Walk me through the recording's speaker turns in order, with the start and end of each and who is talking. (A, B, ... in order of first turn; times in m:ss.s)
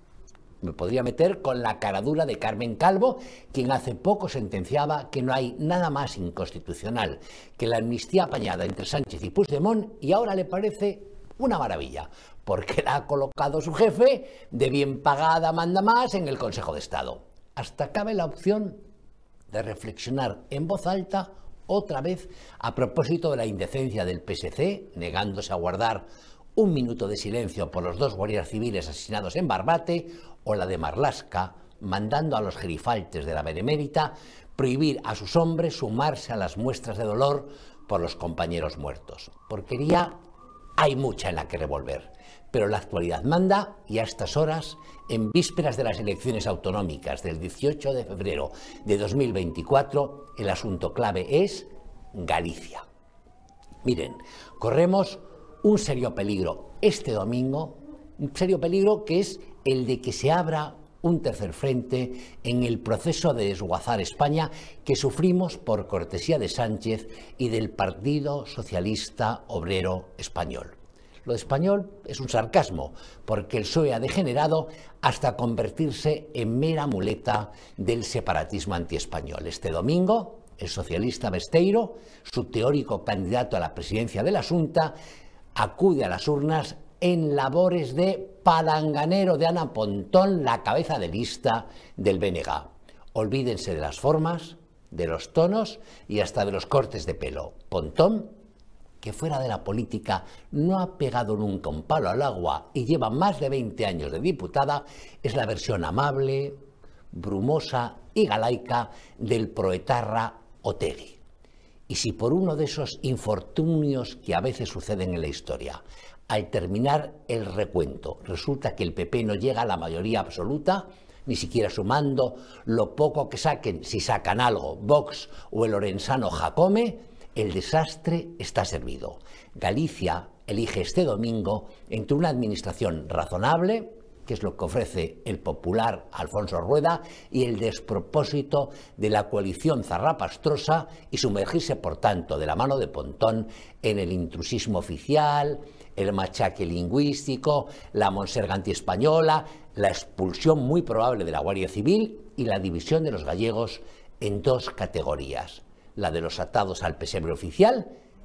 0:00.6-0:18.8 A
0:19.5-0:26.0 A
0:26.6-0:40.1 A
0:40.8-0:52.8 A
0:53.8-1:25.0 A
1:25.6-1:38.3 A
1:39.0-1:46.6 A
1:47.1-1:51.2 A
1:51.9-2:37.9 A